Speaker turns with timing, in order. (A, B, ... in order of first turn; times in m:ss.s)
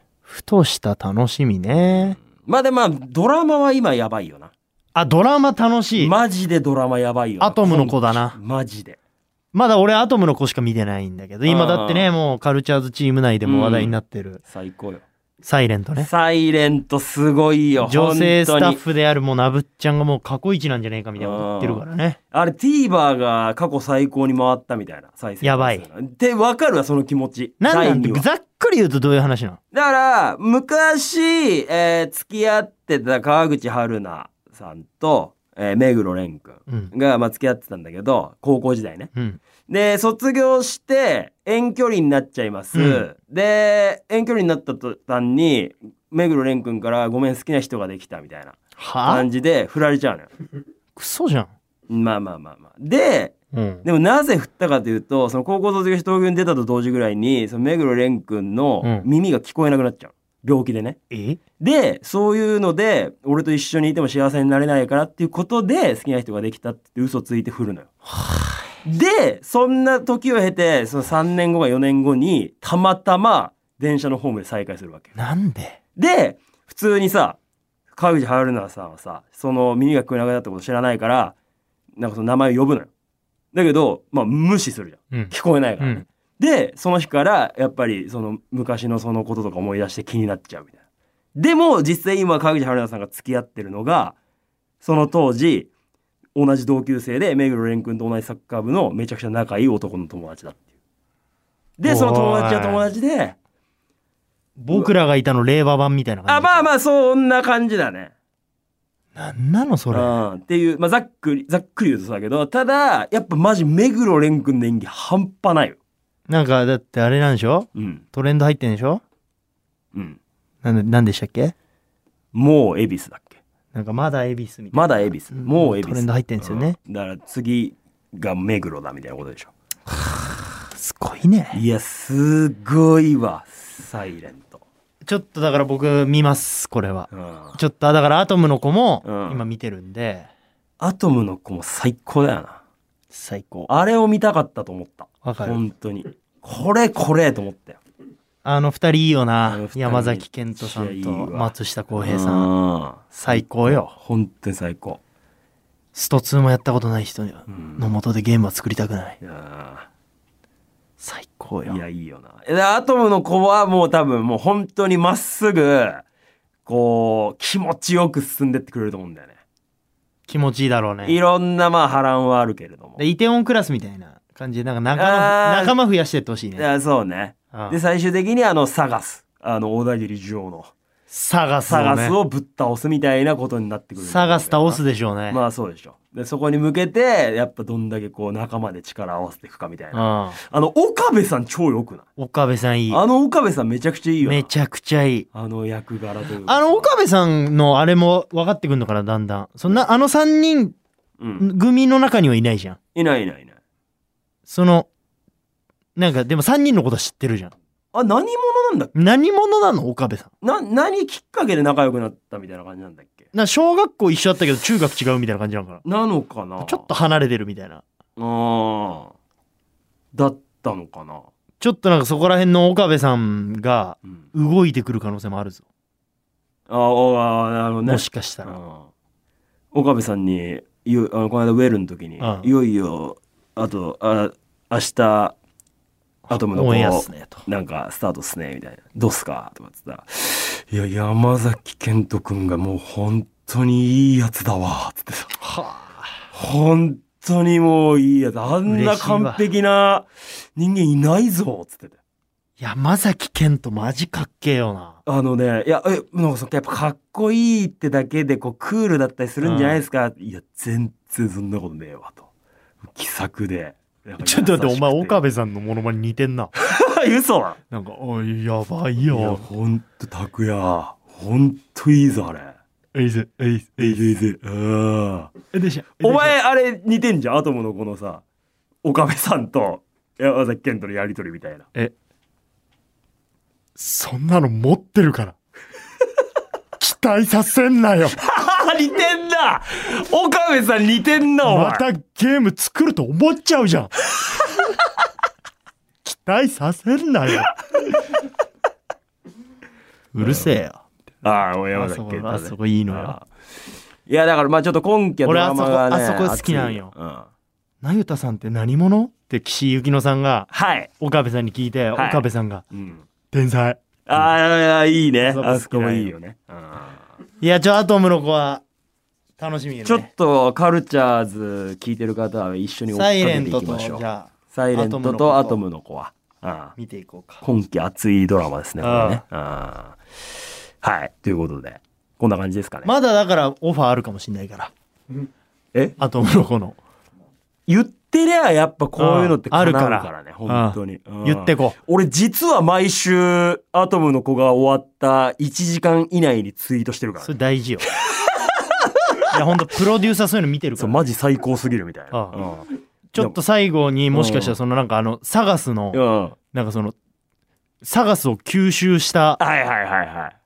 0:00.3-0:02.2 A
0:01.7-0:04.5 B
0:04.9-0:06.1 A
0:05.9-0:09.0 B
0:07.4-0:08.4 A
0:09.5-0:14.4 A
0:11.4-0:12.1 B
0:13.4-0:15.0 B
0:15.4-0:16.1 A
0:16.0-0:18.8 B
0:17.8-0:22.2 A
0:21.2-0:28.3 B
0:25.4-0:25.9 A
0:27.6-0:29.6 A
0:29.7-0:39.1 B
0:39.7-0:50.3 B
0:42.7-0:43.0 A
0:48.8-0:49.2 A
0:51.0-0:51.5 A
0:51.9-1:01.0 B
0:53.5-0:53.8 A
0:58.8-0:59.1 A
1:01.1-1:01.4 A
1:01.6-1:07.9 B
1:08.1-1:08.6 A
1:08.8-1:15.1 B
1:15.2-1:15.8 A
1:16.0-1:17.4 B
1:17.9-1:21.3 B
1:22.0-1:22.9 B
1:23.5-1:30.8 B
1:25.1-1:26.0 A
1:31.3-1:34.2 B
1:34.8-1:35.7 B
1:36.3-1:40.6 B
1:41.8-1:43.4 B
1:41.8-1:42.9 A
1:44.6-1:46.7 A
1:46.3-1:48.1 B
1:49.1-1:50.2 A
1:49.9-1:55.8 B
1:56.3-1:59.0 A
1:57.7-1:58.0 B
1:59.9-2:00.2 B
2:00.6-2:01.5 A
2:02.3-2:03.4 B
2:03.7-2:06.8 A
2:04.7-2:09.5 B
2:10.7-2:11.6 A
2:11.5-2:14.6 B
2:15.0-2:20.3 A
2:17.1-2:17.6 B
2:19.0-2:19.4 B
2:20.8-2:22.6 B
2:23.1-2:23.7 A
2:23.7-2:27.8 B
2:25.2-2:25.6 A
2:28.4-2:32.5 A
2:29.5-2:35.0 B
2:33.1-2:33.9 A
2:35.9-2:39.2 A
2:37.5-2:37.8 B
2:39.2-2:39.9 B
2:41.0-2:41.8 A
2:41.6-2:46.0 B
2:46.6-2:49.4 B
2:50.3-2:51.2 A
2:51.0-2:53.0 B
2:53.0-2:56.6 A
2:54.9-2:55.8 B
2:56.6-3:00.7 B
3:01.1-3:02.2 A
3:01.7-3:12.0 B
3:04.0-3:05.4 A
3:09.9-3:10.4 A
3:12.2-3:13.0 A
3:12.9-3:14.5 B
3:14.2-3:15.3 A
3:15.3-3:16.9 B
3:16.4-3:20.8 A
3:21.2-3:21.5 B
3:21.4-3:22.8 A
3:22.9-3:23.6 B
3:24.5-3:24.9 A
3:26.0-3:27.5 A
3:27.9-3:28.9 B
3:28.9-3:30.3 A
3:30.4-3:33.3 B
3:33.3-3:35.8 A
3:35.8-3:36.9 B
3:36.6-3:37.8 A
3:38.2-3:39.1 B
3:40.1-3:41.3 B
3:41.6-3:45.6 A
3:46.7-3:48.9 B
3:47.8-3:48.6 A
3:49.7-3:55.3 B
3:52.2-3:52.5 A
3:56.3-3:57.4 A
3:56.3-4:05.3 B
4:05.4-4:06.1 A
4:06.3-4:12.0 B
4:08.6-4:09.4 A
4:12.6-4:15.0 A
4:15.0-4:22.3 B
4:19.4-4:19.8 A
4:22.8-4:25.2 B
4:24.2-4:26.5 A
4:26.6-4:27.6 B
4:27.7-4:29.4 A
4:29.0-4:32.5 B
4:32.9-4:34.0 A
4:33.8-4:35.3 B
4:35.5-4:36.4 A
4:36.0-4:38.2 B
4:38.8-4:41.7 B
4:43.8-4:45.3 A
4:46.8-4:48.2 A
4:48.2-4:51.8 B
4:51.4-4:54.2 A
4:56.0-4:57.5 A
5:00.1-5:00.8 A
5:00.2-5:00.5 B
5:01.2-5:03.3 B
5:01.7-5:03.2 A
5:04.1-5:07.3 B
5:05.2-5:06.9 A
5:07.8-5:10.5 A
5:10.5-5:10.9 B
5:11.0-5:12.6 A
5:11.9-5:13.0 B
5:13.3-5:14.3 A
5:14.1-5:17.0 B
5:15.2-5:16.1 A
5:17.4-5:18.6 A
5:19.4-5:20.1 A
5:19.8-5:26.7 B
5:22.9-5:25.6 A
5:26.8-5:27.4 A
5:27.4-5:30.0 B
5:28.8-5:29.2 A
5:30.8-5:32.9 B
5:32.8-5:34.7 A
5:36.0-5:36.8 A
5:37.7-5:47.3 B
5:39.0-5:41.8 A
5:47.2-5:47.9 A
5:48.1-5:49.0 B
5:49.3-5:51.0 A
5:50.8-5:53.4 B
5:52.1-5:52.4 A
5:53.1-5:56.0 A
5:54.1-5:54.6 B
5:55.9-5:56.3 B
5:56.5-5:56.9 A
5:57.8-5:59.4 A
5:59.4-6:00.3 B